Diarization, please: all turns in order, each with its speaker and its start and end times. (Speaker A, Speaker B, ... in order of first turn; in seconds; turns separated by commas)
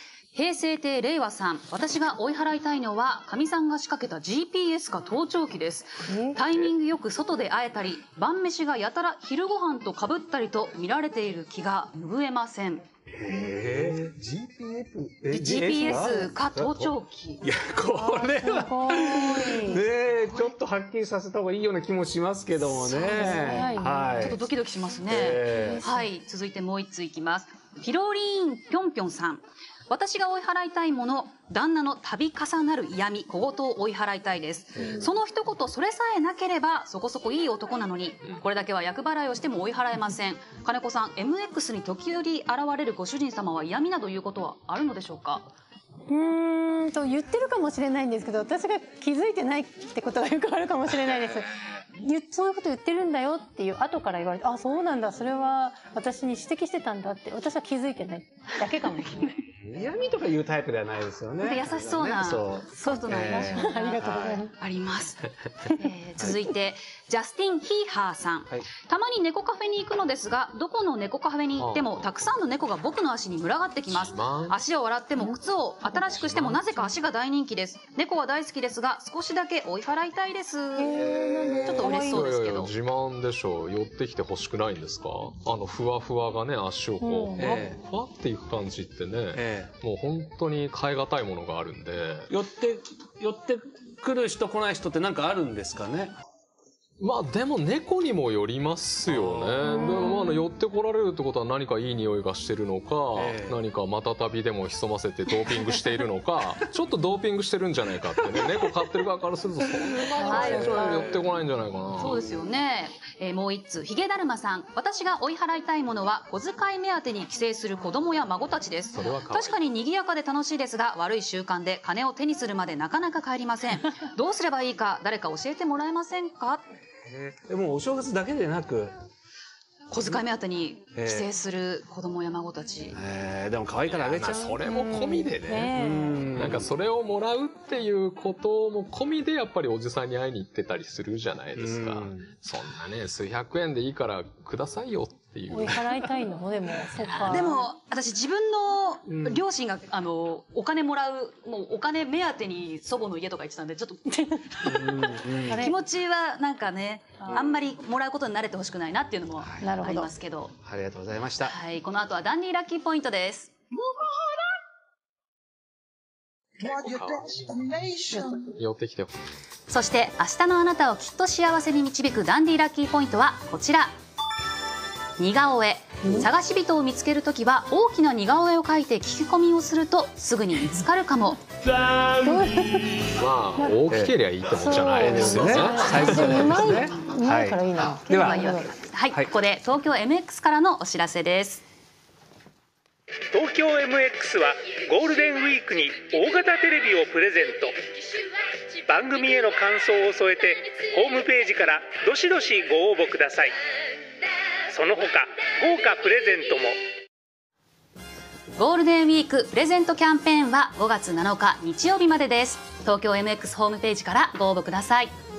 Speaker A: 0.3-12.8, Speaker B: 6.1-6.3, Speaker C: 13.2-24.4, Speaker A: 15.3-17.4, Speaker B: 18.0-19.8, Speaker A: 22.7-23.6, Speaker B: 23.3-24.2, Speaker A: 24.2-45.5, Speaker C: 25.1-25.8, Speaker B: 25.6-26.0, Speaker C: 34.8-35.0, Speaker B: 46.1-59.4, Speaker C: 59.6-64.4, Speaker A: 61.4-64.0, Speaker B: 63.3-64.5, Speaker A: 64.5-82.7, Speaker D: 71.6-71.9, Speaker D: 73.9-74.6, Speaker B: 80.8-82.2, Speaker D: 81.9-92.3, Speaker B: 87.0-87.4, Speaker C: 87.4-87.8, Speaker C: 89.3-89.7, Speaker C: 92.3-96.1, Speaker D: 97.0-112.2, Speaker C: 99.1-99.7, Speaker C: 103.1-103.6, Speaker C: 110.2-111.0, Speaker A: 110.2-111.0, Speaker B: 110.3-110.7, Speaker A: 112.0-126.6, Speaker D: 118.9-119.6, Speaker C: 127.0-128.9, Speaker A: 129.9-133.0, Speaker C: 130.9-131.3, Speaker C: 132.9-134.7, Speaker D: 133.8-135.8, Speaker B: 134.7-136.2, Speaker C: 135.7-136.7, Speaker D: 136.3-146.0, Speaker C: 141.5-142.3, Speaker B: 145.5-147.7, Speaker A: 147.1-155.0, Speaker C: 149.1-149.4, Speaker C: 154.6-155.7, Speaker B: 155.5-155.7, Speaker A: 155.5-160.5, Speaker B: 159.6-160.1, Speaker C: 160.6-161.5, Speaker A: 161.4-163.5, Speaker D: 166.6-167.6, Speaker D: 168.6-169.1, Speaker A: 169.7-173.9, Speaker A: 175.2-181.4, Speaker C: 181.7-182.1, Speaker B: 182.2-182.9, Speaker D: 183.1-186.6, Speaker B: 184.6-188.8, Speaker C: 184.8-188.5, Speaker A: 188.1-191.6, Speaker E: 193.3-197.8, Speaker E: 198.8-203.6, Speaker E: 204.7-206.8, Speaker A: 208.6-215.1